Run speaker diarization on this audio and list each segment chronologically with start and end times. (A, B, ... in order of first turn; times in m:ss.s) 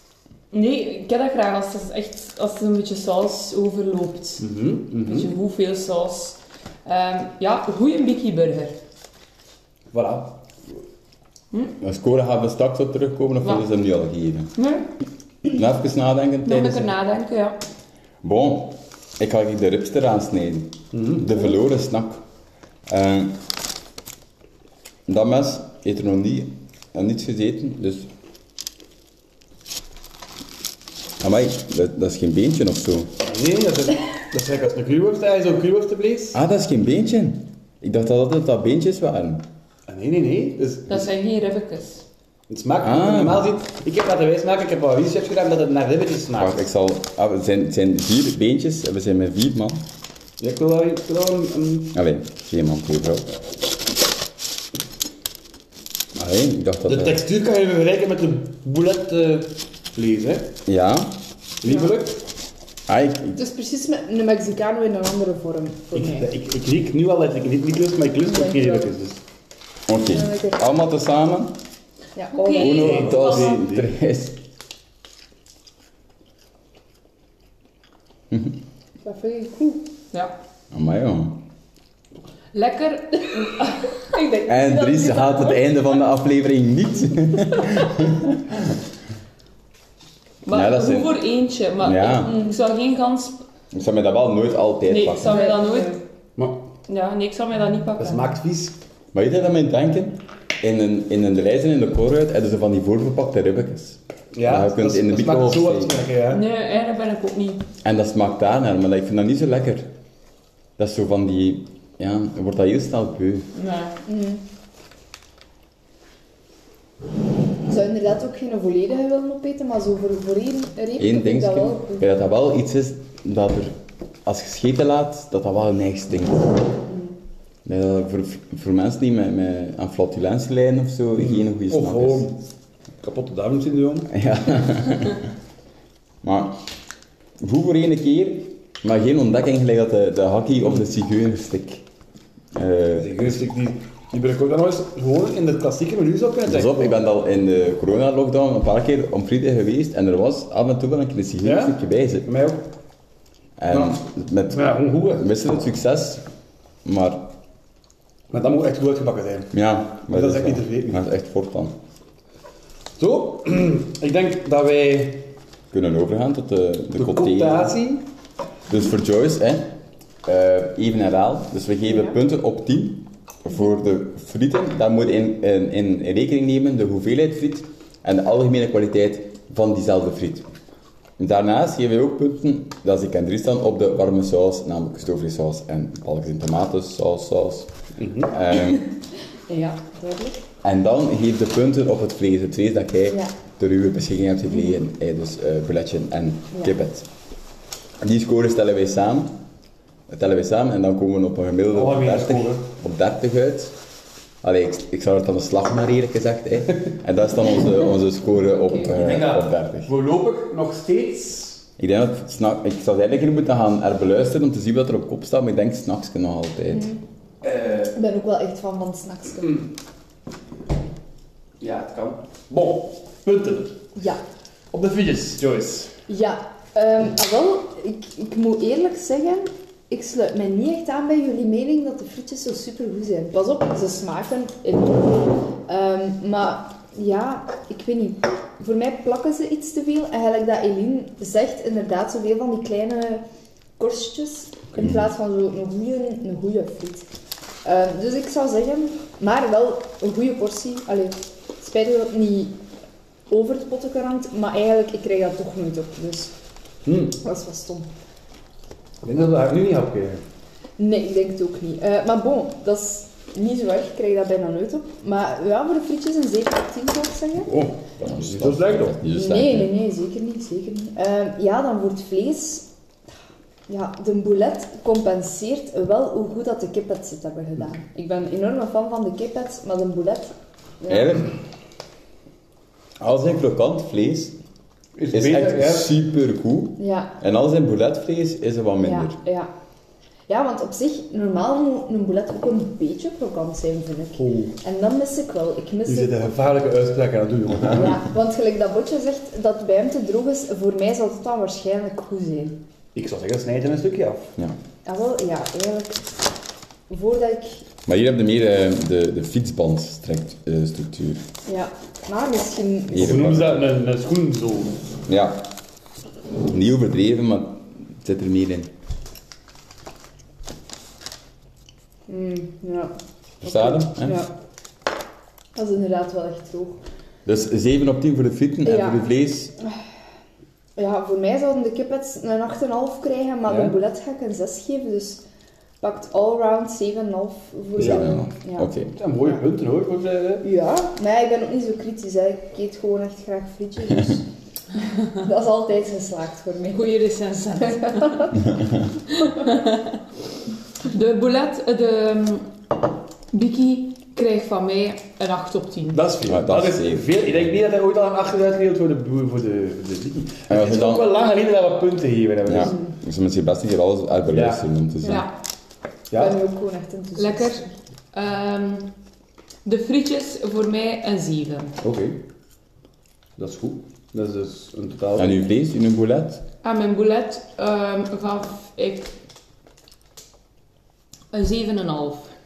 0:00.5-0:08.8 A
0:04.4-0:05.3 B
0:09.9-0:10.4 B
0:11.8-0:14.5 C
0:14.6-0:14.9 A
0:15.5-0:16.9 C
0:16.4-0:17.6 A
0:18.2-0:22.2 C
0:20.9-0:21.2 B
0:22.9-0:23.4 C
0:25.1-0:28.1 C
0:31.2-0:33.1 C
0:33.2-0:36.4 B
0:36.3-0:39.4 C
0:39.9-0:41.1 B
0:40.9-0:42.0 A
0:42.5-0:46.7 B
0:42.8-0:43.5 C
0:46.4-0:49.8 C
0:50.4-0:51.9 B
0:51.9-0:53.3 C
0:56.1-0:57.2 C
0:56.8-1:00.5 B
1:00.6-1:01.2 C
1:01.6-1:02.2 B
1:02.9-1:03.4 C
1:03.4-1:06.3 D
1:05.9-1:09.2 B
1:08.2-1:08.9 D
1:09.9-1:11.6 C
1:10.1-1:10.6 D
1:12.2-1:13.0 D
1:12.3-1:13.7 A
1:12.6-1:14.4 C
1:12.6-1:13.9 B
1:19.0-1:19.8 D
1:20.7-1:21.4 C
1:22.5-1:24.0 A
1:24.1-1:25.6 D
1:24.4-1:28.8 C
1:30.4-1:33.4 A
1:30.5-1:31.2 C
1:31.8-1:32.4 C
1:32.2-1:32.5 D
1:33.7-1:35.4 C
1:34.9-1:36.0 A
1:35.3-1:36.0 D
1:36.9-1:38.3 A
1:38.0-1:38.8 B
1:39.1-1:46.0 C
1:44.3-1:46.4 B
1:46.3-1:47.6 A
1:47.8-1:49.9 C
1:50.8-1:53.5 C
1:53.5-1:54.0 A
1:54.0-1:54.4 D
1:57.7-2:02.0 D
2:01.0-2:06.6 C
2:06.8-2:07.1 D
2:07.6-2:12.3 C
2:11.2-2:12.4 B
2:13.0-2:14.1 B
2:14.1-2:15.2 C
2:16.2-2:16.6 C
2:17.4-2:21.8 C
2:22.5-2:23.4 C
2:23.0-2:27.0 B
2:26.5-2:32.3 C
2:31.4-2:32.7 B
2:33.6-2:36.2 C
2:33.7-2:35.3 B
2:36.8-2:37.3 C
2:38.3-2:39.5 B
2:39.5-2:41.8 C
2:40.0-2:41.0 B
2:43.0-2:45.3 B
2:45.7-2:47.8 C
2:47.0-2:48.0 B
2:48.7-2:49.7 C
2:50.2-3:00.5 C
3:01.2-3:07.7 C
3:08.0-3:08.3 B
3:08.2-3:08.9 C
3:09.5-3:10.4 D
3:10.6-3:17.1 C
3:18.0-3:19.4 C
3:20.1-3:23.8 C
3:21.7-3:22.7 B
3:24.4-3:29.9 C
3:28.5-3:28.9 D
3:28.9-3:31.6 B
3:31.8-3:36.9 C
3:36.7-3:37.0 D
3:37.4-3:37.9 B
3:37.9-3:39.6 D
3:41.6-3:43.8 B
3:44.0-3:44.2 D
3:44.7-3:45.9 B
3:46.1-4:03.2 D
4:03.8-4:07.1 D
4:07.6-4:12.6 D
4:13.3-4:16.3 D
4:16.8-4:17.2 B
4:17.2-4:17.9 D
4:19.0-4:20.2 B
4:20.8-4:27.5 D
4:27.4-4:29.8 C
4:28.1-4:29.0 B
4:29.1-4:32.7 D
4:33.7-4:41.2 D
4:40.9-4:41.4 C
4:43.0-4:44.4 C
4:44.9-4:45.9 B
4:45.1-4:49.2 C
4:46.8-4:47.1 D
4:48.8-4:49.5 D
4:50.3-4:56.4 D
4:54.2-4:54.6 B
4:55.8-4:58.0 B
4:57.8-5:02.6 D
5:02.9-5:04.3 B
5:04.8-5:06.1 D
5:06.9-5:07.6 D
5:07.8-5:11.2 C
5:11.4-5:13.3 D
5:12.9-5:13.7 C
5:12.9-5:14.8 B
5:15.1-5:15.5 C
5:16.4-5:18.7 C
5:22.1-5:22.9 D
5:23.4-5:24.2 C
5:23.4-5:24.3 D
5:25.5-5:26.8 D
5:27.2-5:29.5 C
5:28.6-5:29.0 D
5:30.8-5:35.2 D
5:33.5-5:33.8 B
5:35.8-5:38.7 D
5:37.8-5:38.9 C
5:37.8-5:38.1 B
5:39.0-5:40.4 B
5:40.4-5:44.2 D
5:45.0-5:46.9 D
5:46.7-5:48.4 A
5:47.6-5:48.4 D
5:48.4-5:48.9 C
5:49.1-5:50.0 A
5:50.8-5:52.5 A
5:53.3-5:56.0 A
5:55.9-6:02.8 B
5:56.2-5:57.2 C
6:00.5-6:01.1 C
6:02.4-6:05.2 C
6:02.6-6:02.9 D
6:04.3-6:04.6 B
6:05.0-6:05.3 A
6:06.1-6:06.4 B
6:06.1-6:07.7 D
6:07.2-6:08.9 A
6:09.6-6:11.8 A
6:11.8-6:12.2 B
6:13.4-6:15.4 B
6:15.1-6:16.4 C
6:16.6-6:19.1 A
6:21.3-6:22.3 A